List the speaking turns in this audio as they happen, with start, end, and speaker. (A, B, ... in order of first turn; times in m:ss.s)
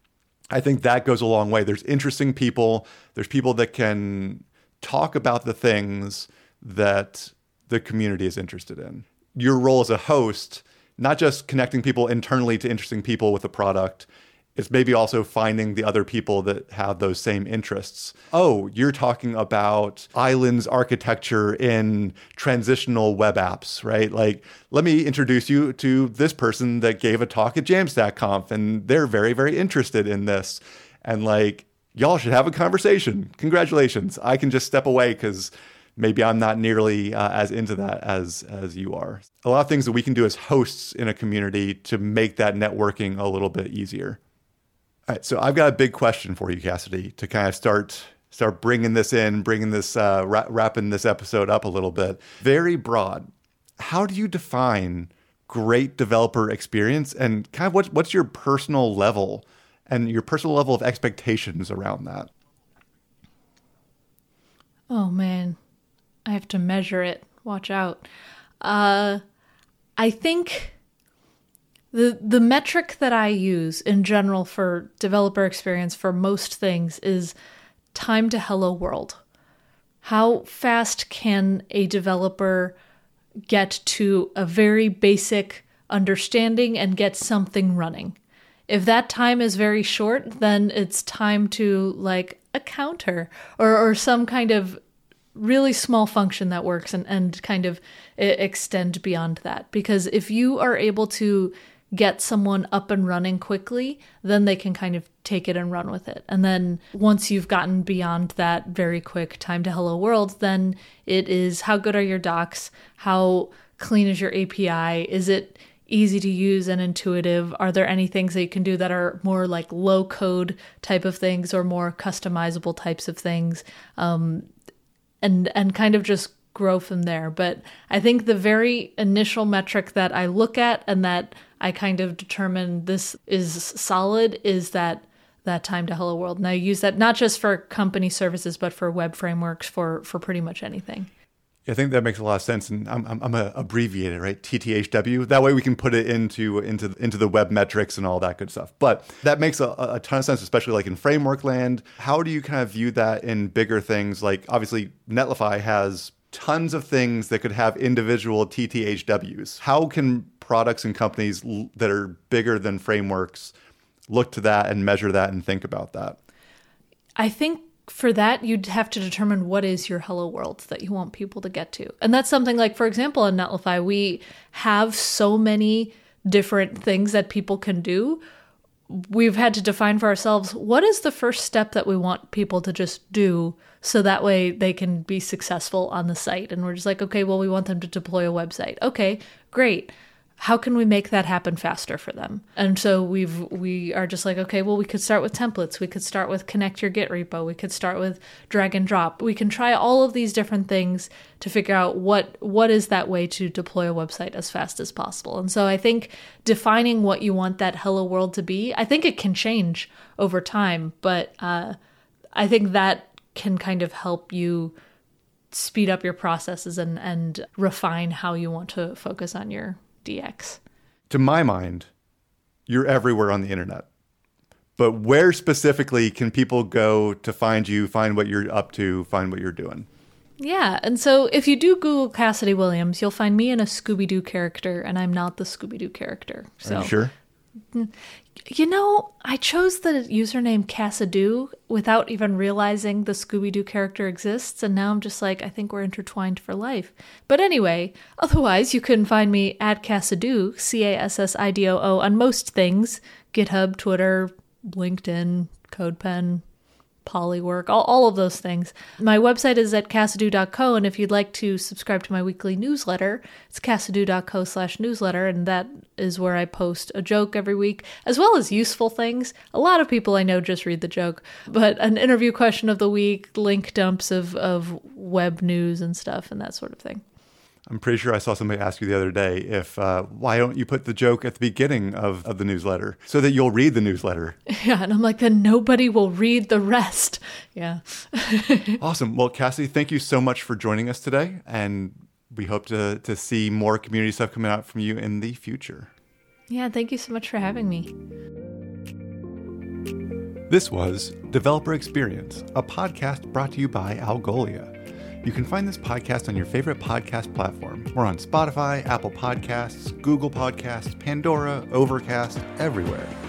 0:00.5-0:44.2 A
0:45.1-1:02.3 A
1:04.9-1:05.6 B
1:06.3-1:08.1 B
1:08.6-1:09.2 B
1:10.0-1:10.8 B
1:11.9-1:17.4 B
1:17.9-1:19.2 B
1:20.0-1:22.8 B
1:23.5-1:28.2 B
1:28.7-1:34.8 B
1:35.4-2:04.5 B
2:05.2-2:21.1 B
2:21.7-2:43.5 A
2:44.1-2:46.2 A
2:47.2-2:58.2 B
2:58.9-3:31.8 B
3:32.4-3:34.8 B
3:35.5-3:40.6 B
3:41.1-3:41.9 A
3:42.7-3:43.9 A
3:44.8-3:49.9 A
3:50.4-3:56.9 B
3:56.6-3:57.1 A
3:58.5-4:16.4 B
4:17.0-4:37.0 B
4:37.7-4:44.4 A
4:44.5-4:48.8 B
4:48.8-4:55.9 A
4:56.5-4:57.9 B
5:00.5-5:13.2 A